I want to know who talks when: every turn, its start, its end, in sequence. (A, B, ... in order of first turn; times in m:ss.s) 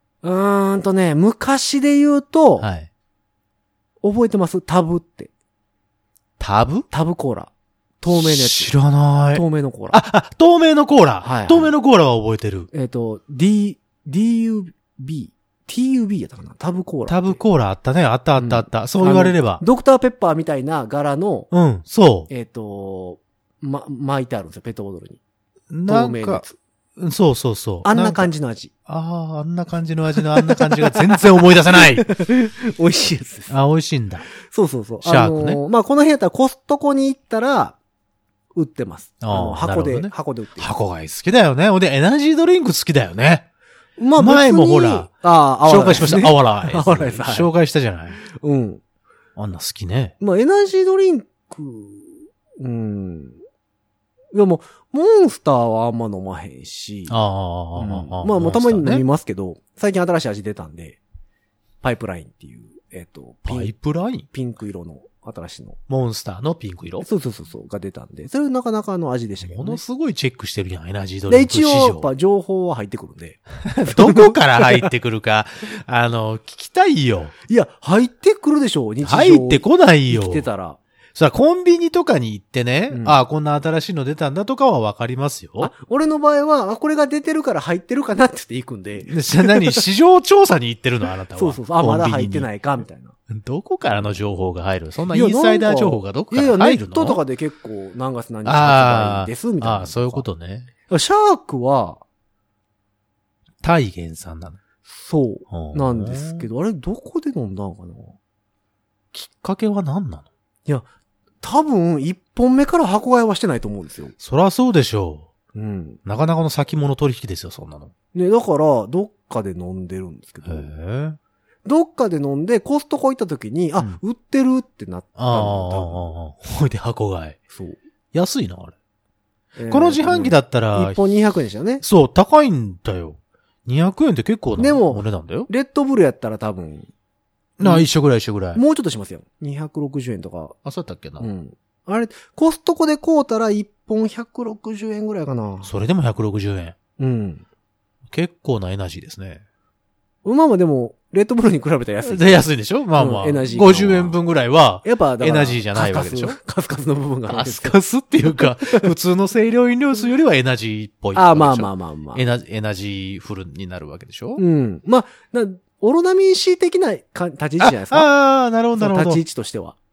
0:00.2-0:02.7 A
0:02.6-0:02.9 B
0:04.0-0:05.3 A
0:06.4-0:06.9 B
0:06.9-0:08.7 A
0:08.1-0:12.7 B
0:09.3-0:10.0 A
0:11.2-0:11.7 A
0:12.7-0:17.4 A
0:17.1-0:19.6 B
0:18.4-0:21.5 A
0:21.5-0:22.3 B
0:22.3-0:25.2 A
0:25.7-0:26.4 B
0:25.8-0:26.6 A
0:27.0-0:28.3 B
0:27.8-0:28.7 A
0:28.9-0:32.1 B
0:30.3-0:33.6 A
0:33.5-0:34.3 B
0:34.4-0:37.8 A
0:35.0-0:35.6 B
0:38.5-0:40.7 A
0:39.2-0:43.5 B
0:44.0-0:47.5 A
0:44.2-0:48.2 B
0:48.3-0:48.8 A
0:49.4-0:50.1 B
0:50.2-0:53.4 A
0:54.3-0:57.2 A
0:57.1-0:59.0 B
0:57.8-1:01.0 A
1:01.8-1:03.7 A
1:03.4-1:04.3 B
1:04.3-1:05.8 A
1:05.9-1:07.0 B
1:07.0-1:09.8 A
1:09.4-1:12.1 B
1:11.3-1:14.9 A
1:13.7-1:17.3 B
1:17.5-1:20.8 A
1:19.0-1:20.5 B
1:21.1-1:25.7 B
1:22.9-1:23.2 A
1:25.6-1:29.8 A
1:29.1-1:32.5 B
1:31.3-1:33.1 A
1:33.3-1:37.2 B
1:35.1-1:40.2 A
1:38.4-1:40.7 B
1:40.9-1:42.0 A
1:43.6-1:44.6 B
1:44.9-1:48.2 A
1:45.5-1:46.4 B
1:49.1-1:50.2 B
1:51.4-1:54.2 A
1:54.2-1:55.3 B
1:55.5-1:56.0 A
1:56.0-1:57.9 B
1:58.1-2:00.7 A
2:00.4-2:01.2 B
2:01.6-2:06.1 A
2:05.2-2:07.4 B
2:07.5-2:07.8 A
2:08.1-2:08.7 B
2:09.6-2:11.8 A
2:09.7-2:11.0 B
2:11.8-2:15.5 B
2:14.6-2:16.9 A
2:17.6-2:18.6 B
2:17.6-2:17.9 A
2:18.5-2:20.6 A
2:20.6-2:21.3 B
2:21.2-2:25.7 A
2:25.6-2:26.8 B
2:27.0-2:27.4 A
2:28.1-2:29.4 B
2:30.2-2:34.2 A
2:32.0-2:36.4 B
2:34.8-2:37.8 A
2:37.3-2:44.4 B
2:38.4-2:38.9 A
2:41.1-2:42.2 A
2:44.4-2:48.1 A
2:47.6-2:49.2 B
2:48.7-2:49.8 A